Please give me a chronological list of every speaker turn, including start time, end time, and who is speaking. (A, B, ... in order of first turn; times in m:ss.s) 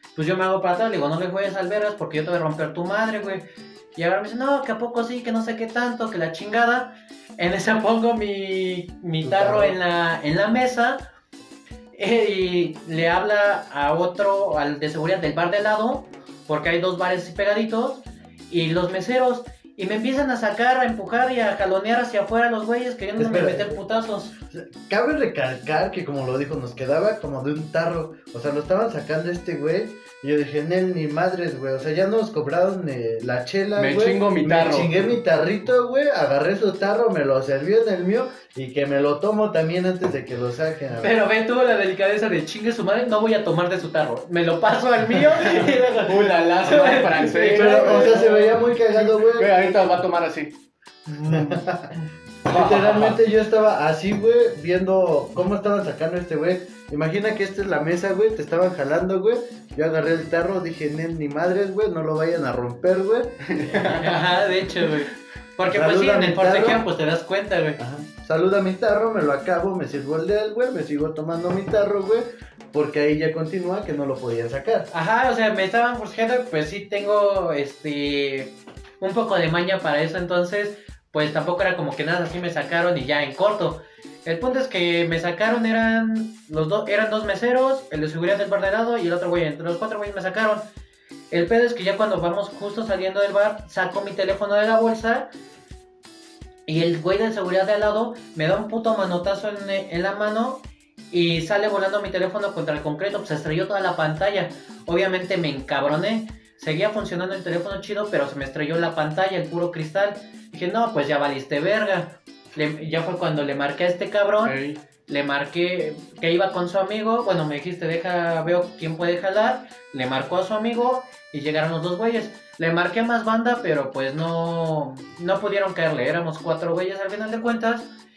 0:00.2-0:11.0 A
0:09.2-0:09.8 B
0:12.0-0:24.3 A
0:23.2-0:23.8 B
0:24.5-0:41.2 B
0:33.8-0:35.1 C
0:41.0-0:48.2 A
0:45.5-0:50.5 C
0:47.5-0:49.5 B
0:51.2-0:51.9 B
0:52.5-1:03.4 B
0:52.5-0:53.2 C
1:03.5-1:04.2 C
1:03.7-1:07.8 A
1:05.7-1:06.8 B
1:07.8-1:14.9 B
1:14.9-1:30.6 A
1:31.3-1:35.3 A
1:36.7-2:07.9 A
1:54.4-1:54.8 C